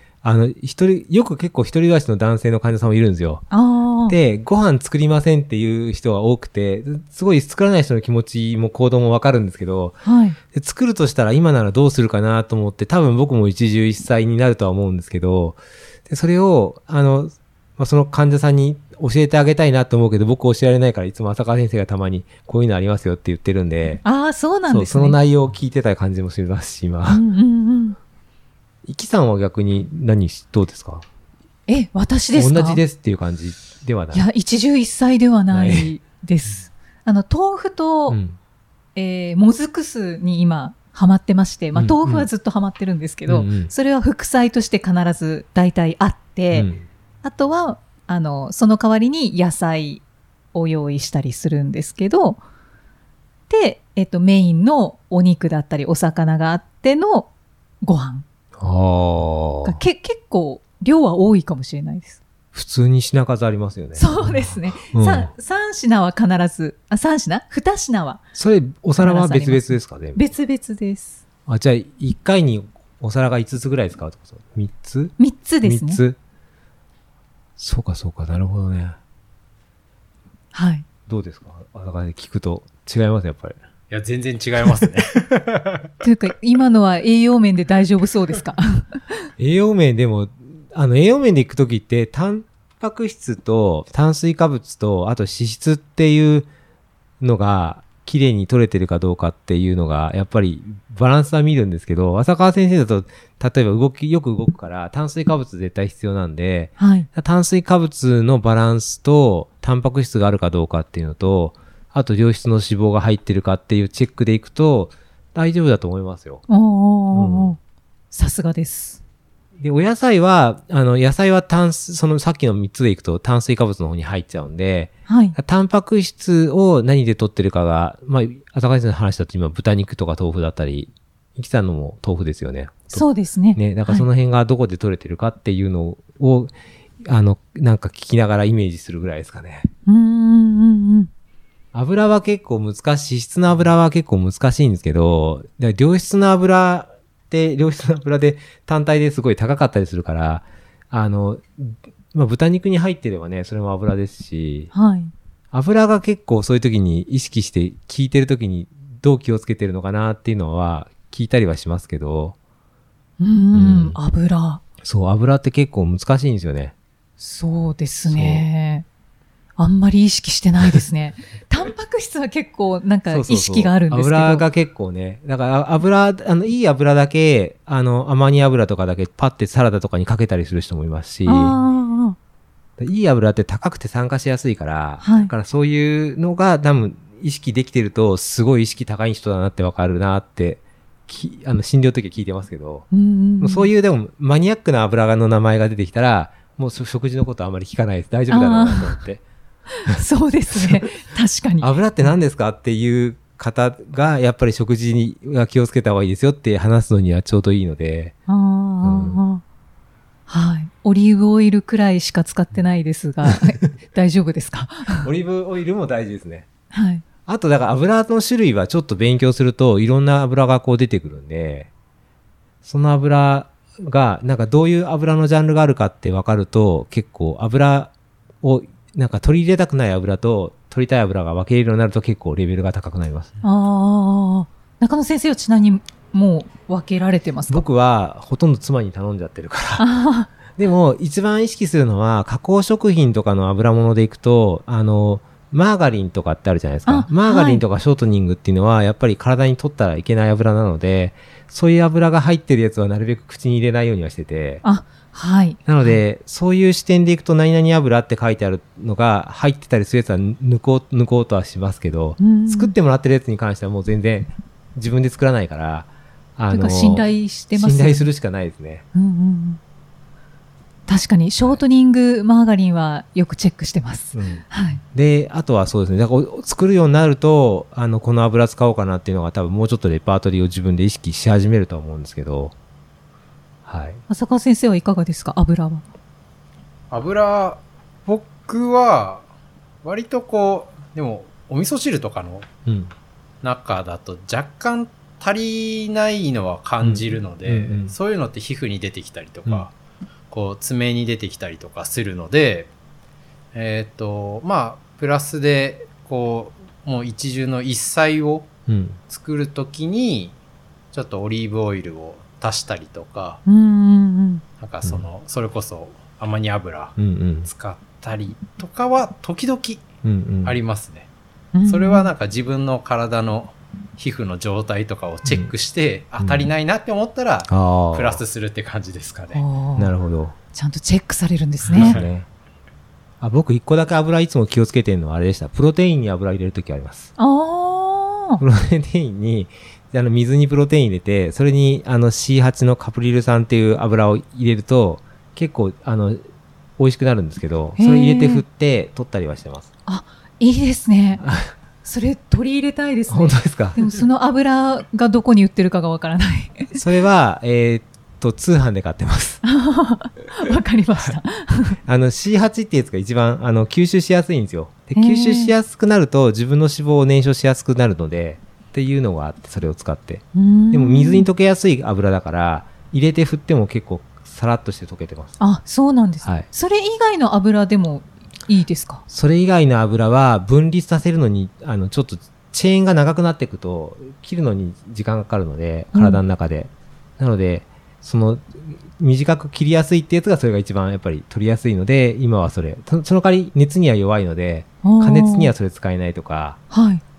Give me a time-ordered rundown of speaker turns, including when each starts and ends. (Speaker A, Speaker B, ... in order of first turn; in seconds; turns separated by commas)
Speaker A: 0.2-3.5, Speaker B: 3.5-4.2, Speaker A: 4.1-10.0, Speaker B: 10.0-10.4, Speaker A: 10.5-24.0, Speaker B: 24.0-25.2, Speaker A: 24.7-27.2, Speaker B: 27.1-28.0, Speaker A: 28.9-31.1, Speaker B: 31.7-32.8, Speaker A: 32.3-34.2, Speaker B: 34.1-38.2, Speaker A: 35.5-35.9, Speaker A: 38.1-38.4, Speaker B: 38.9-46.7, Speaker A: 41.7-42.3, Speaker A: 43.2-43.7, Speaker A: 46.5-46.8, Speaker B: 47.2-50.0, Speaker B: 50.5-52.4, Speaker B: 53.5-57.3, Speaker B: 57.8-58.2, Speaker A: 58.6-59.8, Speaker B: 59.6-62.2, Speaker A: 62.5-65.3, Speaker B: 63.9-68.2, Speaker A: 68.3-70.2, Speaker B: 69.0-71.2, Speaker A: 71.5-76.2, Speaker B: 75.2-76.0, Speaker A: 77.6-79.0, Speaker B: 80.5-80.8, Speaker A: 81.1-83.6, Speaker C: 83.9-85.9, Speaker B: 86.0-89.3, Speaker A: 89.4-96.5, Speaker A: 97.2-116.4, Speaker B: 106.8-107.1, Speaker B: 116.5-117.6, Speaker A: 117.1-117.5, Speaker B: 118.1-119.0, Speaker A: 119.6-136.5, Speaker B: 125.1-125.4, Speaker B: 132.9-134.0, Speaker A: 137.0-139.7, Speaker B: 139.8-141.1, Speaker A: 141.7-154.7, Speaker B: 154.7-155.1, Speaker A: 155.5-162.3, Speaker B: 163.2-164.6, Speaker A: 163.5-164.0, Speaker A: 164.8-166.7, Speaker B: 167.2-168.8, Speaker A: 168.1-168.4, Speaker B: 169.6-174.4, Speaker A: 173.1-181.5, Speaker B: 181.2-182.2, Speaker A: 182.8-192.9, Speaker B: 185.0-185.3, Speaker B: 192.9-193.7, Speaker A: 193.4-199.2, Speaker B: 198.3-199.0, Speaker B: 199.7-201.7, Speaker A: 200.5-200.8, Speaker A: 201.6-208.1, Speaker B: 208.3-209.4, Speaker A: 208.8-209.2, Speaker B: 210.3-215.1, Speaker A: 215.0-216.5, Speaker B: 216.7-217.0, Speaker A: 217.2-221.7, Speaker A: 222.6-233.3, Speaker B: 233.4-237.6, Speaker A: 237.5-239.9, Speaker B: 239.8-240.3, Speaker A: 240.5-254.6, Speaker B: 246.8-247.6, Speaker B: 254.6-256.0, Speaker A: 255.7-268.8, Speaker B: 262.2-262.7, Speaker B: 266.5-268.1, Speaker B: 268.9-269.6, Speaker B: 270.9-274.8, Speaker A: 274.1-282.5, Speaker A: 283.6-284.0, Speaker B: 284.1-285.8, Speaker C: 286.9-289.2, Speaker C: 289.8-292.5, Speaker A: 292.6-292.9, Speaker C: 293.4-299.7, Speaker A: 296.8-297.9, Speaker C: 300.3-302.7, Speaker C: 303.5-308.5, Speaker A: 308.7-309.0, Speaker C: 309.1-310.3, Speaker C: 310.9-313.4, Speaker B: 313.4-314.4, Speaker C: 314.6-319.9, Speaker A: 317.0-317.5, Speaker A: 320.0-320.6, Speaker C: 320.4-321.1, Speaker B: 321.5-322.1, Speaker C: 321.6-329.4, Speaker A: 325.2-325.5, Speaker A: 326.2-326.5, Speaker A: 327.5-328.2, Speaker B: 329.3-329.9, Speaker A: 329.8-330.4, Speaker B: 330.5-332.0, Speaker C: 331.7-332.1, Speaker A: 331.7-332.2, Speaker A: 333.2-337.1, Speaker B: 337.2-338.4, Speaker A: 338.4-346.2, Speaker A: 346.8-349.7, Speaker B: 347.8-348.4, Speaker B: 349.9-351.2, Speaker A: 351.2-351.5, Speaker B: 351.8-356.8, Speaker A: 353.1-354.0, Speaker A: 356.7-359.4, Speaker B: 359.4-361.8, Speaker A: 361.8-375.4, Speaker B: 364.9-365.5, Speaker B: 370.3-371.3, Speaker B: 375.4-379.0, Speaker A: 379.1-396.6, Speaker B: 385.9-386.2, Speaker B: 394.8-395.5, Speaker B: 396.7-397.0